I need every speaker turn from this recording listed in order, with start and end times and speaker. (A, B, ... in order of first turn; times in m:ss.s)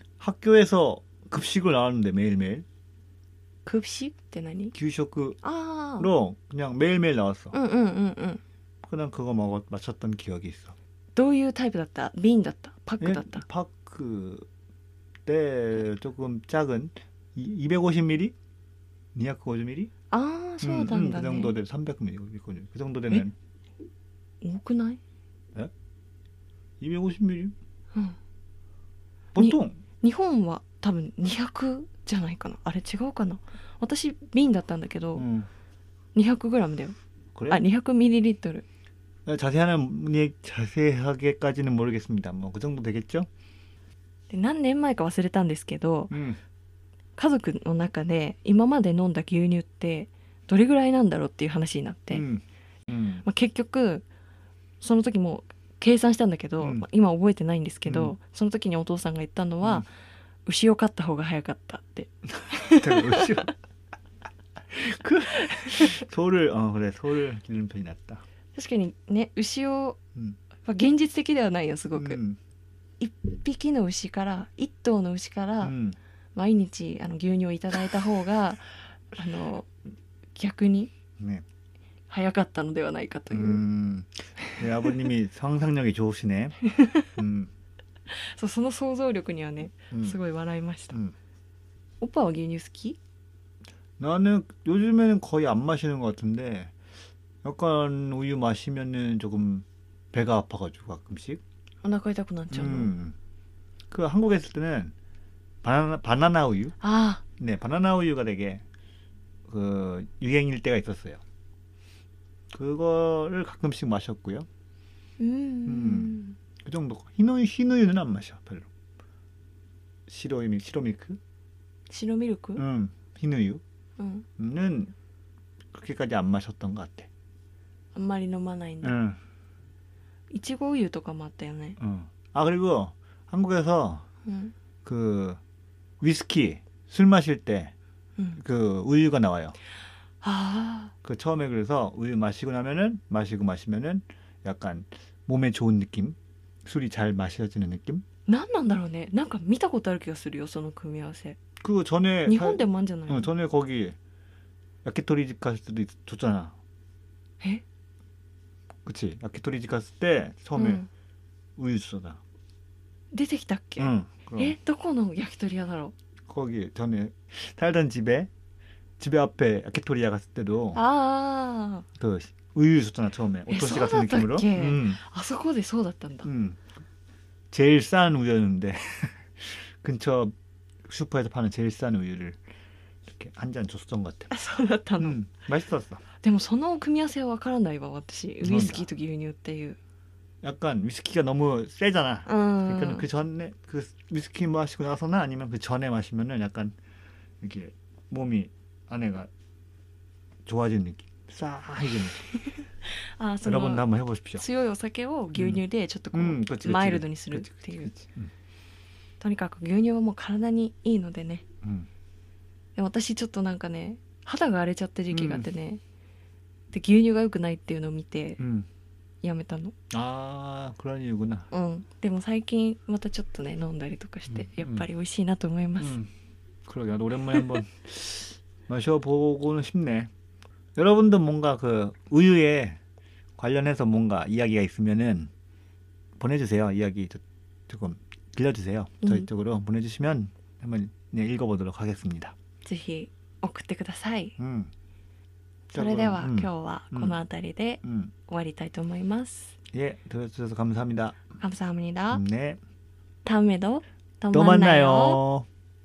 0:00.2-0:02.6 A
0:03.6-0:04.7 B
0:04.7-0:05.4 A
0:05.4-0:06.1 B
0:06.0-0:07.6 A
0:07.5-0:08.4 B
0:08.8-0:10.7 A
0:11.2-0:13.4 B
0:13.0-0:14.5 A
0:15.3-0:18.4 A
0:19.2-0:19.9 A
0:20.1-0:21.5 B
0:20.6-0:23.3 A
0:24.4-0:25.0 B
0:26.8-0:27.6 A
0:29.3-0:29.8 A
0:29.4-0:35.2 B
0:35.2-0:35.5 A
0:36.2-0:37.0 B
0:37.4-0:37.6 A
0:37.5-0:38.6 B
0:39.3-0:43.3 A
0:44.3-0:46.1 B
0:46.1-0:46.4 A
0:47.2-0:52.2 B
0:52.1-0:53.3 A
0:53.2-0:54.1 B
0:54.8-0:59.9 B
0:56.6-0:56.9 A
0:57.9-0:58.2 A
1:00.5-1:03.5 B
1:02.5-1:03.5 A
1:04.7-1:08.2 A
1:05.4-1:06.0 B
1:08.6-1:10.0 B
1:10.6-1:12.2 B
1:12.0-1:12.4 A
1:13.0-1:15.8 B
1:15.6-1:16.0 A
1:16.4-1:19.7 B
1:20.4-1:20.9 B
1:21.2-1:21.4 A
1:22.1-1:23.6 B
1:23.3-1:26.6 A
1:24.5-1:24.9 B
1:26.7-1:27.1 B
1:27.2-1:27.5 A
1:28.1-1:31.0 B
1:29.9-1:30.2 A
1:32.0-1:33.0 B
1:34.0-1:36.7 A
1:37.4-1:41.4 A
1:41.8-1:42.9 B
1:42.5-1:43.2 A
1:43.9-1:44.9 A
1:45.6-1:46.8 A
1:46.8-1:47.2 B
1:47.4-1:48.6 A
1:49.5-1:51.2 A
1:52.5-1:54.5 A
1:55.2-1:56.4 B
1:55.7-1:58.7 A
2:00.1-2:01.2 A
2:01.9-2:02.6 B
2:02.6-2:03.6 A
2:04.0-2:04.3 B
2:04.4-2:04.9 A
2:05.7-2:07.1 A
2:07.9-2:09.0 B
2:08.8-2:09.2 A
2:10.3-2:11.8 B
2:11.8-2:14.1 A
2:14.2-2:14.5 B
2:14.8-2:15.4 A
2:16.0-2:17.7 A
2:18.4-2:19.6 A
2:20.2-2:20.9 B
2:21.0-2:28.0 A
2:28.3-2:31.4 B
2:31.6-2:34.0 A
2:32.3-2:33.3 B
2:34.8-2:36.6 A
2:38.8-2:40.8 A
2:40.6-2:40.9 B
2:41.6-2:42.2 A
2:43.1-2:45.9 B
2:43.8-2:44.6 A
2:46.3-2:48.3 A
2:49.0-2:50.8 A
2:50.7-2:51.9 B
2:52.0-2:55.0 A
2:53.5-2:56.3 B
2:56.2-2:56.6 A
2:57.5-3:00.3 A
3:00.8-3:02.4 A
3:03.1-3:04.3 A
3:04.3-3:05.2 B
3:05.0-3:06.0 A
3:06.2-3:09.8 B
3:08.4-3:08.9 A
3:10.4-3:16.8 A
3:12.3-3:13.1 B
3:17.4-3:19.3 A
3:20.5-3:22.2 A
3:22.9-3:27.9 B
3:23.4-3:24.4 A
3:25.4-3:25.6 A
3:26.1-3:28.3 A
3:29.2-3:31.4 B
3:31.6-3:31.9 A
3:32.8-3:35.8 B
3:35.1-3:35.5 A
3:36.7-3:38.4 B
3:38.4-3:38.7 A
3:39.2-3:39.8 B
3:39.9-3:41.5 A
3:41.5-3:46.0 B
3:44.3-3:44.9 A
3:45.8-3:46.1 A
3:46.6-3:50.1 A
3:50.8-3:52.8 A
3:53.4-3:55.3 A
3:56.2-4:02.3 A
4:02.6-4:04.4 B
4:04.4-4:04.7 A
4:05.7-4:09.5 B
4:05.7-4:07.2 A
4:07.8-4:08.1 A
4:09.7-4:11.2 A
4:11.4-4:12.2 B
4:12.1-4:12.6 A
4:13.2-4:15.2 B
4:14.3-4:15.5 A